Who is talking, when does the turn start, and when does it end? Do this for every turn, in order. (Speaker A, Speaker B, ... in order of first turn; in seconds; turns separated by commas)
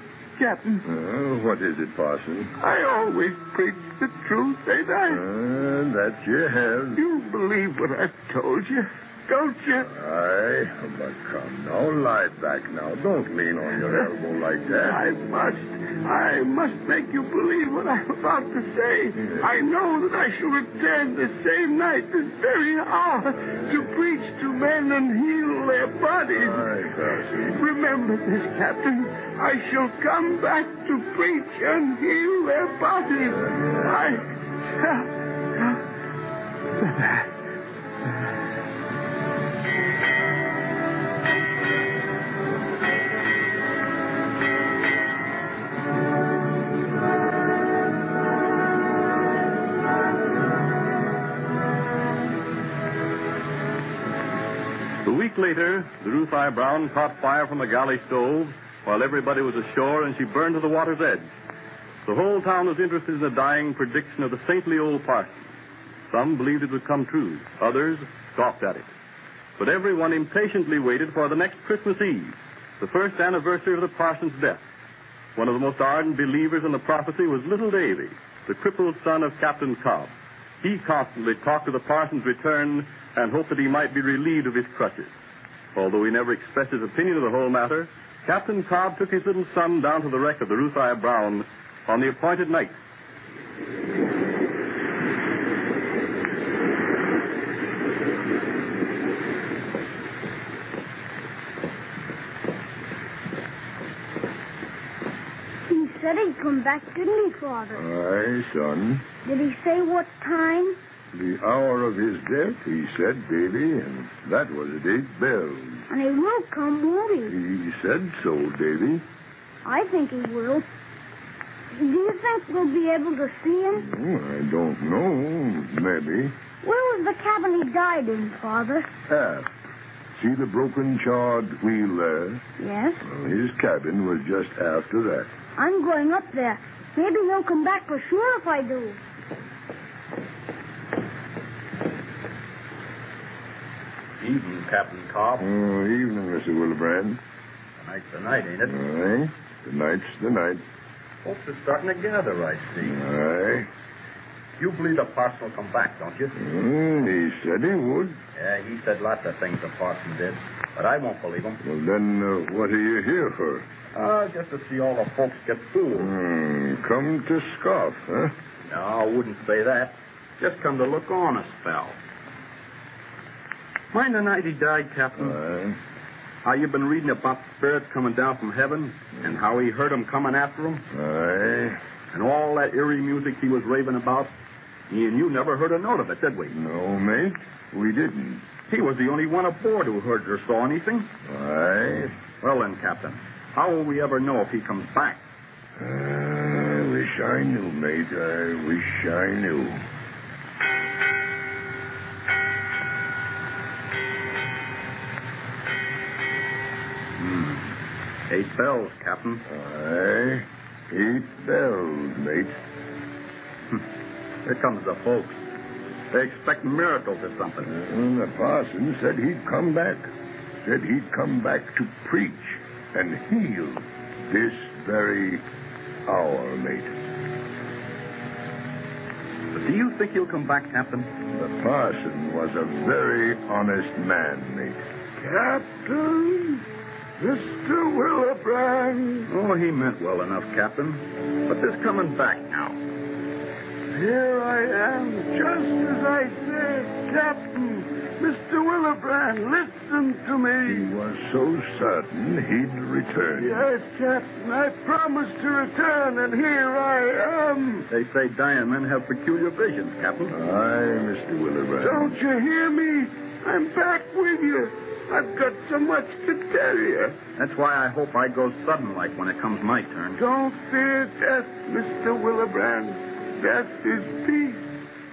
Speaker A: 0.4-0.8, Speaker B: 0.8-2.5, Speaker A: 2.6-5.2, Speaker B: 5.1-7.0, Speaker A: 7.0-9.9, Speaker B: 9.8-15.0, Speaker A: 13.8-14.1, Speaker A: 14.7-26.6, Speaker B: 19.1-19.5, Speaker B: 26.3-27.6, Speaker A: 27.4-35.8, Speaker B: 33.3-34.1, Speaker A: 36.8-37.3, Speaker C: 55.0-61.3, Speaker C: 62.0-65.5, Speaker C: 66.1-68.9, Speaker C: 69.6-74.6, Speaker C: 75.3-85.1, Speaker C: 85.7-92.7, Speaker D: 105.7-107.8, Speaker B: 107.7-109.0, Speaker D: 109.2-110.8, Speaker B: 111.1-115.8, Speaker D: 115.9-117.3, Speaker B: 117.3-119.0, Speaker D: 119.6-120.6, Speaker D: 121.8-123.9, Speaker B: 123.8-126.3, Speaker D: 126.6-128.9, Speaker B: 129.1-129.5, Speaker B: 130.2-132.4, Speaker D: 132.6-133.0, Speaker B: 133.0-135.3, Speaker D: 135.6-139.0, Speaker E: 144.2-145.5, Speaker B: 145.4-147.2, Speaker E: 147.8-148.8, Speaker B: 148.6-150.6, Speaker E: 151.2-153.0, Speaker B: 152.8-153.7, Speaker E: 154.6-156.4, Speaker B: 156.3-158.2, Speaker E: 158.3-161.6, Speaker B: 161.6-163.7, Speaker E: 163.9-166.1, Speaker B: 165.9-168.3, Speaker E: 168.7-172.0, Speaker E: 173.9-175.4, Speaker B: 175.2-175.8, Speaker E: 176.4-180.8, Speaker B: 180.9-181.8, Speaker E: 182.1-184.3, Speaker E: 184.9-186.6, Speaker B: 186.5-188.4, Speaker E: 188.7-191.1, Speaker B: 191.2-192.2, Speaker E: 192.4-195.2, Speaker B: 195.8-199.8, Speaker E: 207.2-207.8, Speaker E: 208.3-209.4, Speaker B: 209.5-212.5, Speaker E: 214.4-215.4, Speaker E: 216.1-217.7, Speaker B: 217.6-220.1, Speaker B: 220.6-225.4, Speaker B: 226.1-226.9, Speaker E: 229.5-231.1, Speaker B: 231.3-234.8, Speaker A: 235.2-236.6, Speaker A: 237.2-239.3, Speaker E: 239.3-242.8, Speaker A: 243.9-250.9, Speaker B: 250.7-253.6, Speaker A: 253.4-257.9, Speaker E: 257.9-260.4, Speaker B: 260.3-262.2, Speaker A: 261.8-267.2, Speaker E: 267.4-270.2, Speaker A: 270.2-274.6